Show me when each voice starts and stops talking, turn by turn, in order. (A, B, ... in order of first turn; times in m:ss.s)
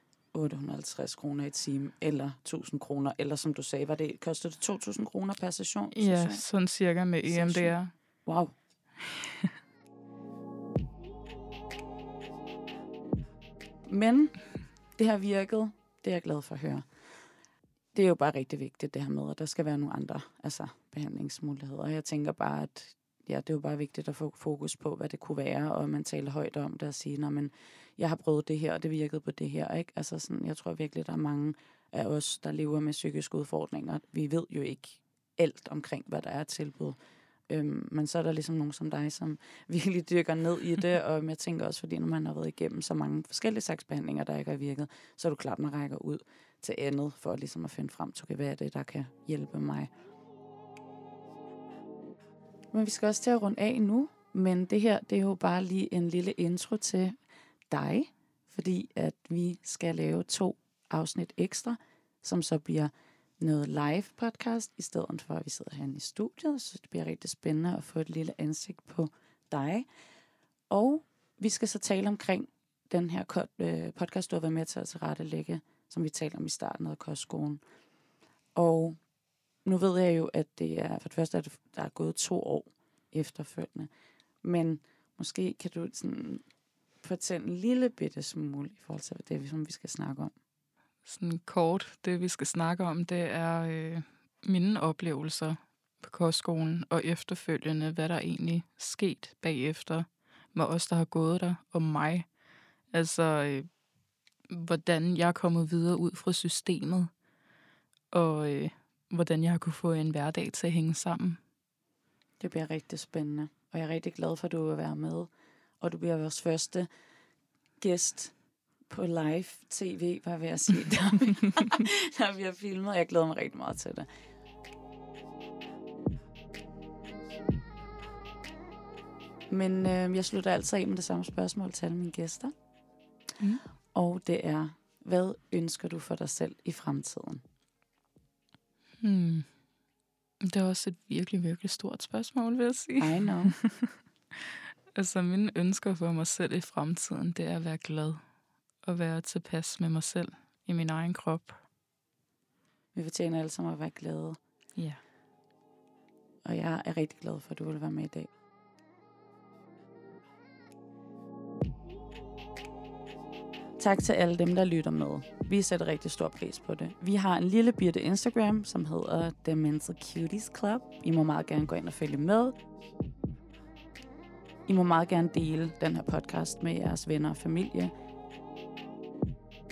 0:00.3-0:06.5 A
0:05.9-0:07.9 B
0:07.2-0:08.5 A
0:09.0-0:09.5 B
0:13.9-0:16.9 A
0:17.9-0:37.0 A
0:37.5-0:49.9 A
0:52.7-0:57.2 A
0:57.7-1:09.9 A
1:10.7-1:17.6 A
1:18.6-1:19.0 A
1:19.6-1:23.9 A
1:24.4-1:26.4 A
1:27.0-1:30.3 A
1:31.0-1:42.3 B
1:42.9-1:43.7 B
1:44.5-1:47.1 B
1:48.1-1:51.4 B
1:52.4-1:56.9 A
1:57.8-1:58.4 A
1:58.9-2:04.1 A
2:09.5-2:12.5 A
2:13.9-2:17.4 A
2:19.0-2:19.5 B
2:20.4-2:28.2 B
2:23.0-2:23.6 A
2:28.8-2:31.6 B
2:32.9-2:34.4 A
2:34.8-2:35.0 B
2:36.4-2:38.3 A
2:43.8-2:52.6 A
2:54.7-2:57.9 A